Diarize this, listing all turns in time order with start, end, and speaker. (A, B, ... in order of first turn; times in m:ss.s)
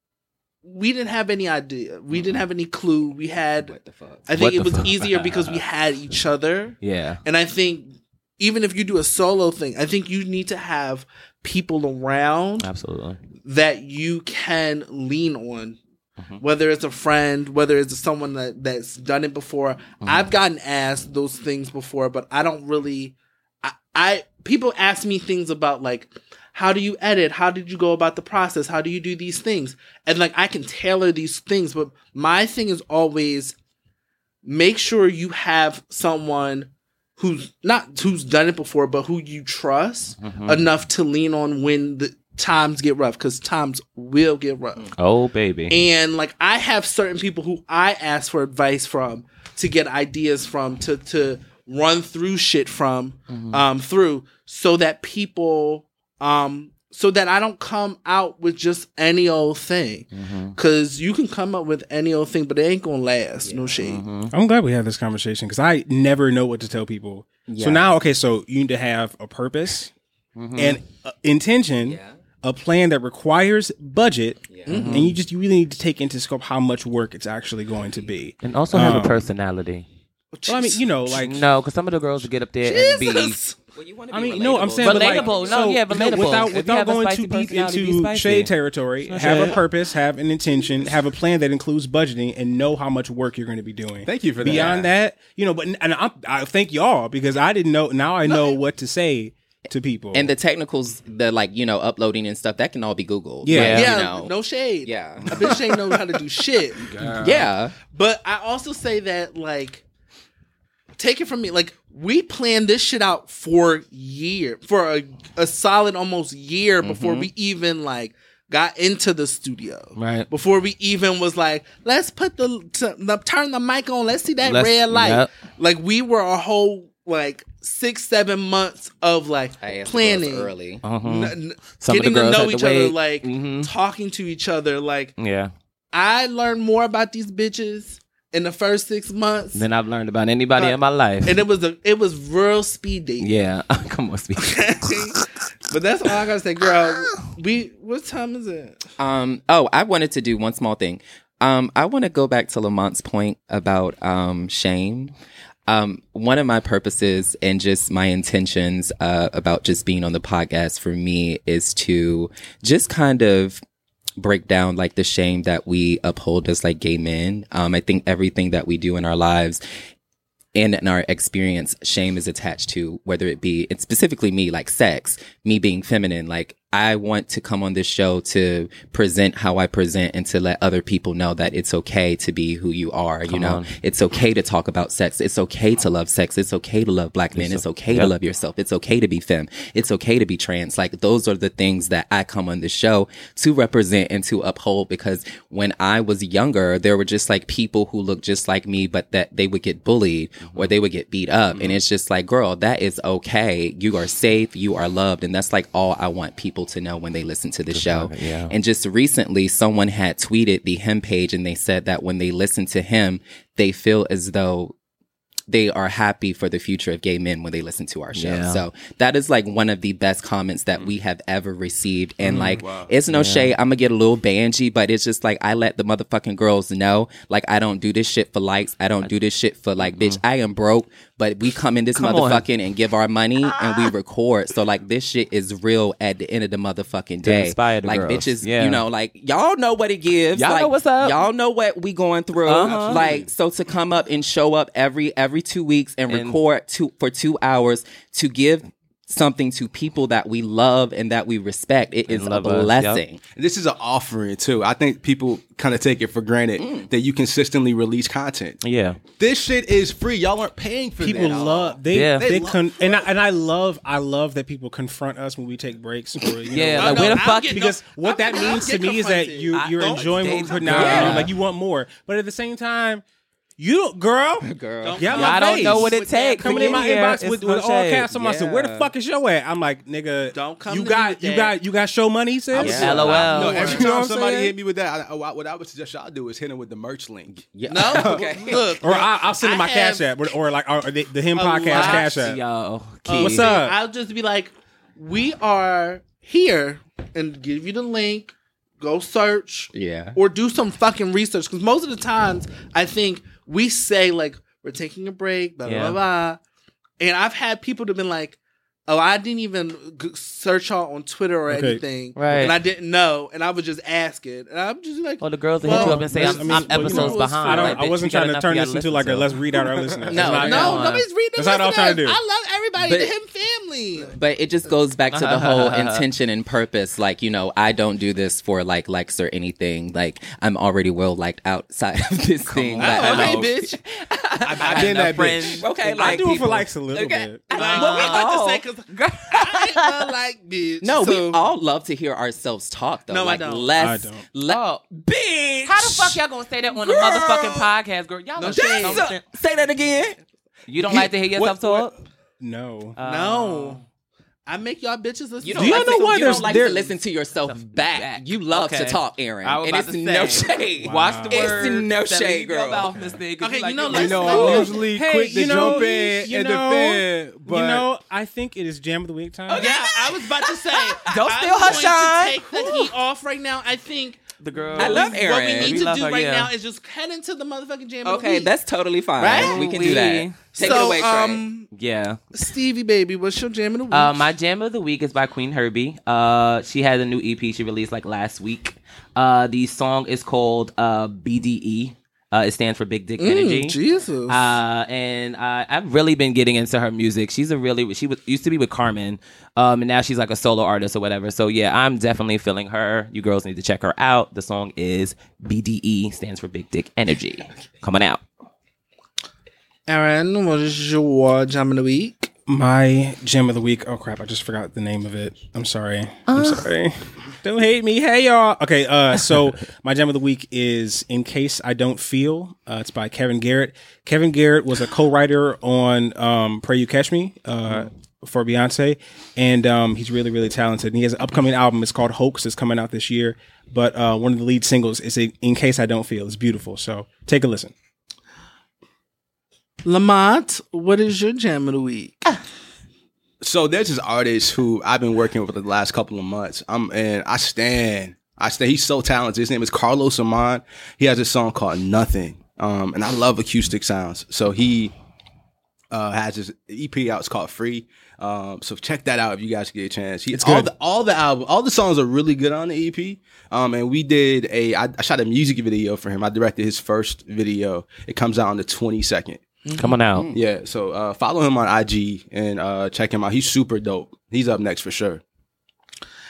0:00.6-0:03.7 A
0:03.6-0:04.2 B
0:04.3-0:12.7 A
0:04.4-0:05.6 C
0:06.8-0:07.2 C
0:12.6-0:13.2 C
0:13.4-0:15.8 A
0:16.4-0:33.5 A
0:20.0-0:20.3 C
0:34.4-0:44.9 A
0:40.2-0:40.6 C
0:45.0-0:45.8 C
0:45.7-1:04.0 A
0:53.3-0:53.6 C
1:00.1-1:00.5 C
1:03.4-1:03.7 B
1:03.8-1:04.3 C
1:04.3-1:09.9 D
1:07.5-1:07.9 B
1:10.4-1:10.8 C
1:10.5-1:19.3 D
1:11.8-1:12.1 B
1:14.5-1:14.8 B
1:14.7-1:15.1 A
1:14.7-1:15.1 C
1:18.4-1:19.8 C
1:20.3-1:20.8 A
1:20.5-1:21.4 D
1:21.1-1:23.4 C
1:22.6-1:23.6 A
1:23.7-1:26.5 B
1:24.1-1:40.3 D
1:24.7-1:28.5 C
1:29.1-1:29.6 C
1:34.0-1:34.8 E
1:34.5-1:34.8 B
1:40.1-1:45.6 B
1:43.4-1:43.9 D
1:43.5-1:43.9 C
1:43.7-1:46.9 A
1:46.8-1:47.5 C
1:47.2-1:47.7 B
1:47.9-1:49.8 A
1:51.0-2:10.5 A
1:56.8-1:57.3 B
2:00.0-2:00.3 C
2:04.4-2:05.3 C
2:09.6-2:10.8 B
2:10.8-2:13.7 C
2:11.0-2:15.1 A
2:15.2-2:15.5 C
2:15.9-2:19.6 A
2:19.5-2:21.4 C
2:20.5-2:23.4 A
2:23.2-2:24.6 C
2:24.4-2:28.8 A
2:29.0-2:35.1 B
2:35.7-2:43.6 B
2:44.2-2:49.6 B
2:50.5-3:34.7 B
3:03.3-3:03.7 C
3:07.3-3:08.1 C
3:20.4-3:20.7 C
3:21.5-3:21.8 E
3:27.7-3:28.5 C
3:35.5-4:13.2 B
3:38.1-3:38.6 C
3:42.2-3:43.5 C
3:42.6-3:42.9 E
3:49.8-3:50.2 C
3:51.9-3:52.4 C
3:53.4-3:53.9 C
3:57.2-3:58.8 C
4:00.4-4:01.2 C
4:02.4-4:03.0 C
4:02.6-4:03.3 E
4:06.1-4:06.4 C
4:12.1-4:13.0 C
4:13.3-4:21.6 E
4:16.6-4:16.9 B
4:18.6-4:19.0 C
4:21.0-4:33.0 D
4:21.2-4:21.8 B
4:21.9-4:22.2 C
4:22.2-4:23.0 E
4:26.5-4:27.6 C
4:26.8-4:31.3 A
4:29.8-4:31.3 C
4:30.7-4:31.3 B
4:33.6-4:44.3 D
4:34.4-4:35.1 B
4:34.8-4:36.8 A
4:35.1-4:38.1 C
4:38.1-4:38.9 B
4:40.3-4:41.6 A
4:42.5-4:43.3 B
4:42.5-4:44.4 C
4:42.8-4:43.8 A
4:43.2-4:48.4 E
4:47.5-4:48.6 B
4:47.7-4:50.0 A
4:48.8-4:52.4 D
4:51.3-4:52.4 A
4:51.7-4:53.5 C
4:53.0-5:06.4 A
4:53.2-4:53.8 D
4:59.7-5:00.2 B
5:05.6-5:06.0 C
5:07.0-5:17.8 A
5:11.5-5:11.8 D
5:12.2-5:12.5 C
5:15.2-5:19.3 C
5:15.6-5:22.2 D
5:20.1-5:20.8 B
5:20.2-5:21.0 C
5:20.4-5:24.1 A
5:22.8-5:23.1 B
5:24.1-5:34.9 B
5:25.1-5:26.0 C
5:32.4-5:33.5 C
5:32.8-5:33.8 A
5:33.0-5:33.3 E
5:34.4-5:35.6 E
5:34.6-5:36.1 C
5:35.6-5:38.6 B
5:35.8-5:37.5 D
5:37.5-5:41.5 A
5:37.5-5:38.2 C
5:38.9-5:39.9 C
5:40.8-5:47.7 B
5:43.1-5:43.7 A
5:43.8-5:44.2 D
5:44.5-5:44.8 C
5:45.6-5:49.2 C
5:48.4-5:49.0 A
5:48.4-5:50.2 B
5:50.7-5:51.9 C
5:50.8-5:51.9 E
5:52.4-5:53.0 D
5:53.0-5:53.8 C
5:53.0-5:53.8 A
5:54.5-5:56.8 A
5:55.4-6:03.0 B
5:55.5-5:56.9 D
5:57.4-6:04.8 C
6:00.8-6:01.6 D
6:02.9-6:03.2 D
6:03.4-6:04.8 A
6:03.9-6:07.8 E
6:04.3-6:04.7 B
6:04.3-6:09.7 D
6:09.5-6:12.8 B
6:09.5-6:18.5 A
6:11.0-6:12.3 C
6:14.4-6:16.5 C
6:14.8-6:15.8 B
6:18.0-6:21.4 B
6:19.2-6:20.0 A
6:19.3-6:20.7 C
6:20.5-6:21.7 A
6:21.7-6:22.2 C
6:22.3-6:24.2 A
6:23.9-6:33.8 C
6:33.2-6:34.5 A
6:34.3-6:48.2 C
6:49.9-6:52.3 A
6:52.5-7:17.7 D
6:56.3-6:56.7 C
7:19.8-7:22.4 A
7:23.4-7:34.9 E
7:35.9-7:49.4 E
7:40.3-7:40.7 D
7:49.6-7:50.0 A
7:49.8-7:50.3 C
7:50.1-7:50.4 B
7:50.3-7:55.2 E